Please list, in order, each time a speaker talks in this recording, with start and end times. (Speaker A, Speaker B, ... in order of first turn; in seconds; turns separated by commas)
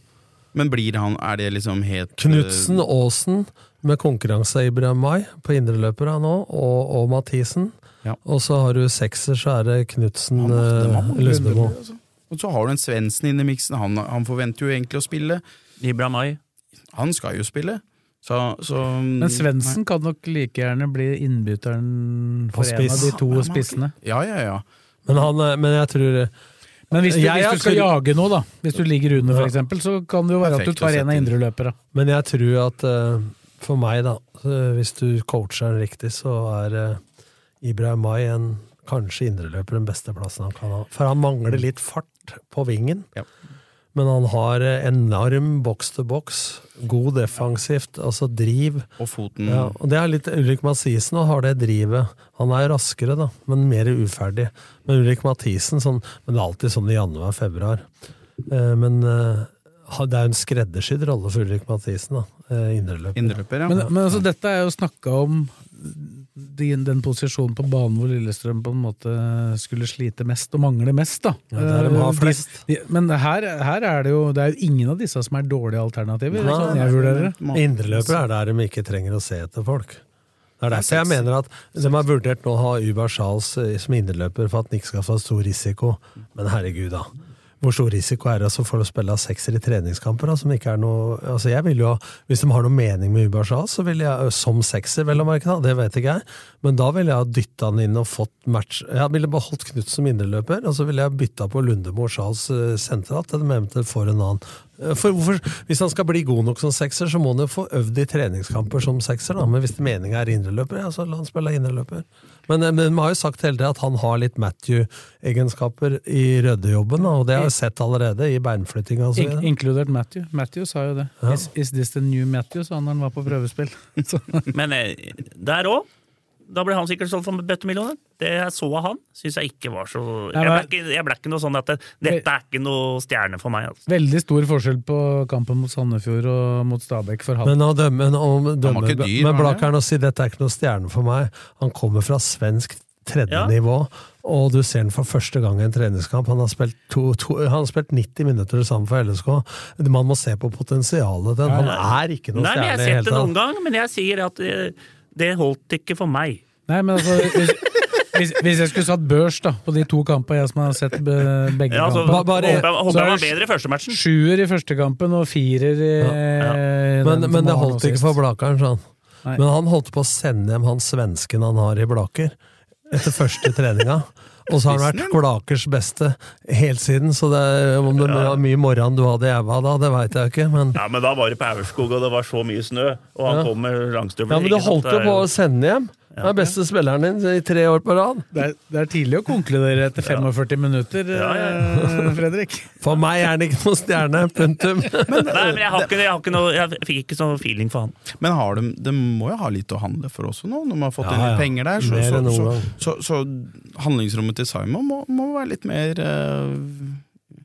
Speaker A: 0.5-2.8, Speaker B: 2.2-11.7, Speaker A: 10.4-15.4, Speaker C: 11.2-11.7, Speaker D: 15.8-16.4, Speaker A: 16.9-19.8, Speaker C: 19.2-23.9, Speaker B: 22.5-23.1, Speaker A: 23.0-24.6, Speaker B: 25.1-26.3, Speaker C: 26.9-31.7, Speaker B: 26.9-27.9, Speaker B: 29.3-29.5, Speaker A: 30.4-31.3, Speaker B: 31.9-37.0, Speaker B: 37.6-43.1, Speaker B: 43.9-48.9, Speaker A: 49.0-49.7, Speaker B: 49.5-57.9, Speaker B: 58.5-63.8, Speaker A: 63.1-63.9, Speaker C: 63.7-77.4, Speaker B: 71.5-72.6, Speaker A: 76.3-78.0, Speaker B: 76.4-80.0, Speaker B: 80.6-87.1, Speaker A: 80.7-81.2, Speaker B: 87.6-119.5, Speaker C: 119.2-124.5, Speaker B: 121.2-121.5, Speaker D: 124.5-125.9, Speaker D: 126.5-133.8, Speaker C: 130.3-130.7, Speaker C: 133.9-137.6, Speaker B: 137.4-153.3, Speaker A: 138.6-139.7, Speaker D: 143.3-143.5, Speaker C: 151.4-151.7, Speaker D: 152.3-156.4, Speaker C: 156.7-168.2, Speaker D: 161.7-164.0, Speaker B: 162.0-162.8, Speaker B: 167.0-168.8, Speaker B: 169.3-172.4, Speaker B: 172.9-180.8, Speaker A: 174.7-175.2, Speaker D: 178.0-178.4, Speaker D: 180.7-185.3, Speaker B: 183.2-183.5, Speaker B: 184.3-188.3, Speaker C: 188.3-192.7, Speaker D: 191.1-191.8, Speaker B: 192.8-195.4, Speaker A: 195.1-195.9, Speaker D: 195.1-198.0, Speaker A: 198.2-207.0, Speaker B: 201.0-202.7